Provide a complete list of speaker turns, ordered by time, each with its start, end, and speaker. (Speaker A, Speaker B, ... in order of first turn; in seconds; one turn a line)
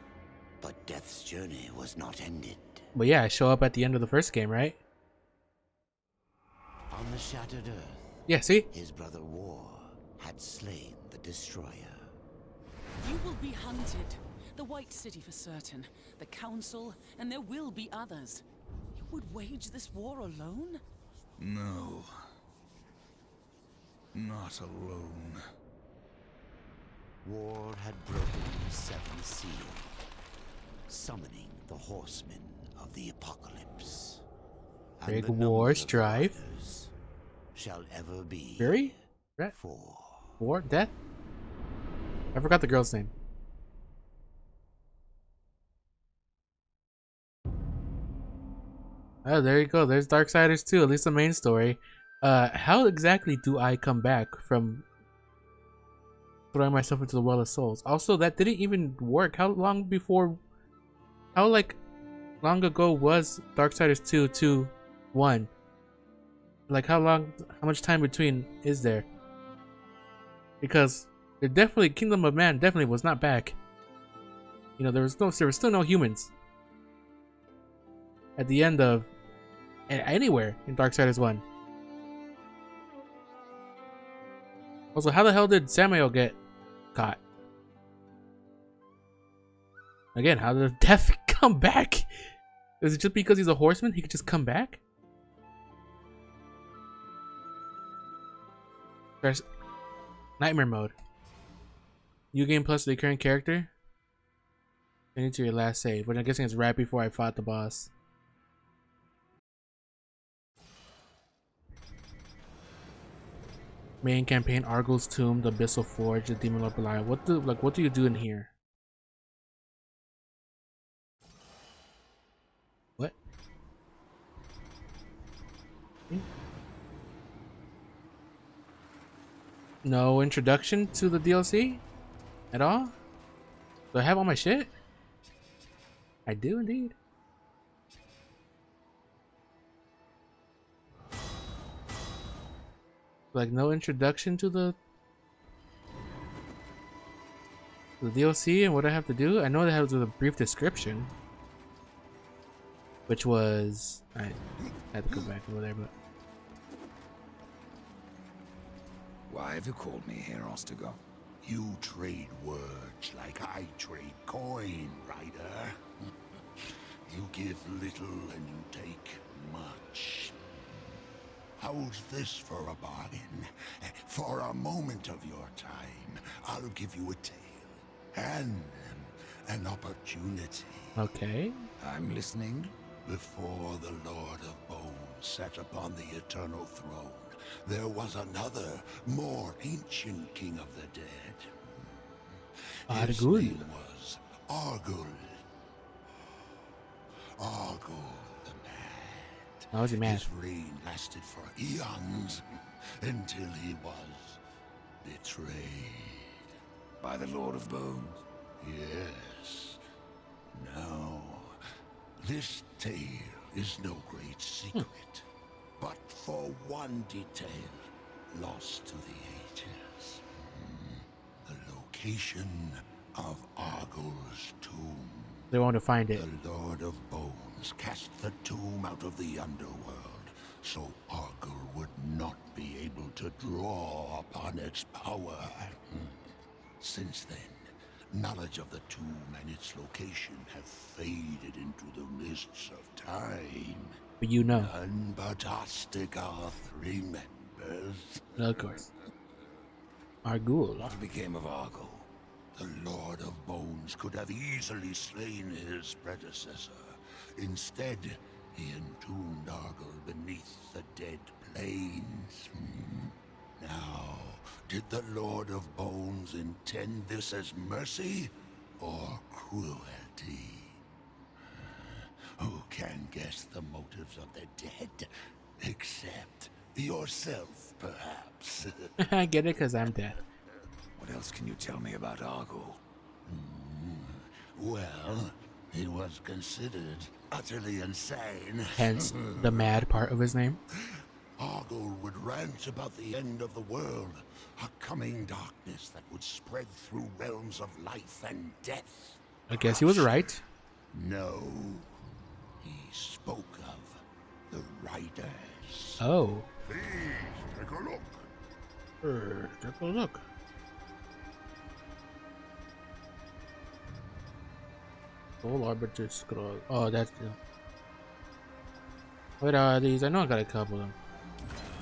Speaker A: 0.6-2.9
Speaker B: 3.0-4.8
Speaker A: 6.9-8.2
Speaker B: 8.3-8.7
Speaker A: 8.7-12.1
Speaker C: 13.0-18.4
Speaker C: 18.9-20.8
Speaker D: 21.4-22.1
Speaker D: 24.1-25.4
Speaker A: 27.2-29.9
Speaker A: 30.9-34.2
Speaker A: 35.0-36.9
Speaker B: 35.1-36.3
Speaker A: 37.5-38.9
Speaker B: 38.6-39.5
Speaker A: 39.5-40.4
Speaker B: 40.4-40.9
Speaker B: 42.3-43.1
Speaker B: 49.2-54.9
Speaker B: 56.5-60.4
Speaker B: 61.4-61.8
Speaker B: 62.4-65.5
Speaker B: 66.7-69.1
Speaker B: 70.6-73.6
Speaker B: 74.8-76.3
Speaker B: 78.4-79.1
Speaker B: 79.9-81.4
Speaker B: 85.0-86.4
Speaker B: 87.0-87.2
Speaker B: 90.2-92.1
Speaker B: 92.8-94.8
Speaker B: 100.4-100.9
Speaker B: 102.3-103.7
Speaker B: 105.2-107.9
Speaker B: 114.0-118.5
Speaker B: 129.8-131.8
Speaker B: 132.5-132.9
Speaker B: 133.9-134.7
Speaker B: 136.3-136.9
Speaker B: 143.3-144.8
Speaker B: 148.0-151.1
Speaker B: 153.1-154.4
Speaker B: 154.9-155.9
Speaker D: 159.3-161.0
Speaker E: 161.4-165.8
Speaker E: 166.6-170.4
Speaker E: 171.6-181.0
Speaker B: 181.0-181.6
Speaker D: 181.8-182.7
Speaker E: 183.1-191.9
Speaker E: 192.9-195.4
Speaker B: 192.9-193.7
Speaker E: 197.4-202.4
Speaker B: 199.7-200.3
Speaker E: 203.0-204.4
Speaker E: 205.0-206.4
Speaker D: 207.0-208.2
Speaker E: 208.6-209.8
Speaker E: 210.5-211.5
Speaker E: 212.2-215.3
Speaker E: 215.8-225.5
Speaker B: 225.5-226.2
Speaker E: 226.1-236.2
Speaker E: 236.8-248.8
Speaker B: 244.2-244.7
Speaker B: 248.4-248.9
Speaker B: 250.2-250.9
Speaker D: 250.8-252.1
Speaker E: 252.5-270.8
Speaker E: 271.6-279.0
Speaker B: 279.0-280.2
Speaker D: 281.0-282.8
Speaker E: 283.3-289.8
Speaker B: 288.8-290.6
Speaker E: 290.9-300.4
Speaker B: 299.5-300.4
Speaker E: 300.9-301.9
Speaker E: 302.6-306.0
Speaker B: 306.0-306.5
Speaker E: 306.6-308.3
Speaker B: 309.0-310.2
Speaker B: 315.4-317.4
Speaker B: 319.4-321.0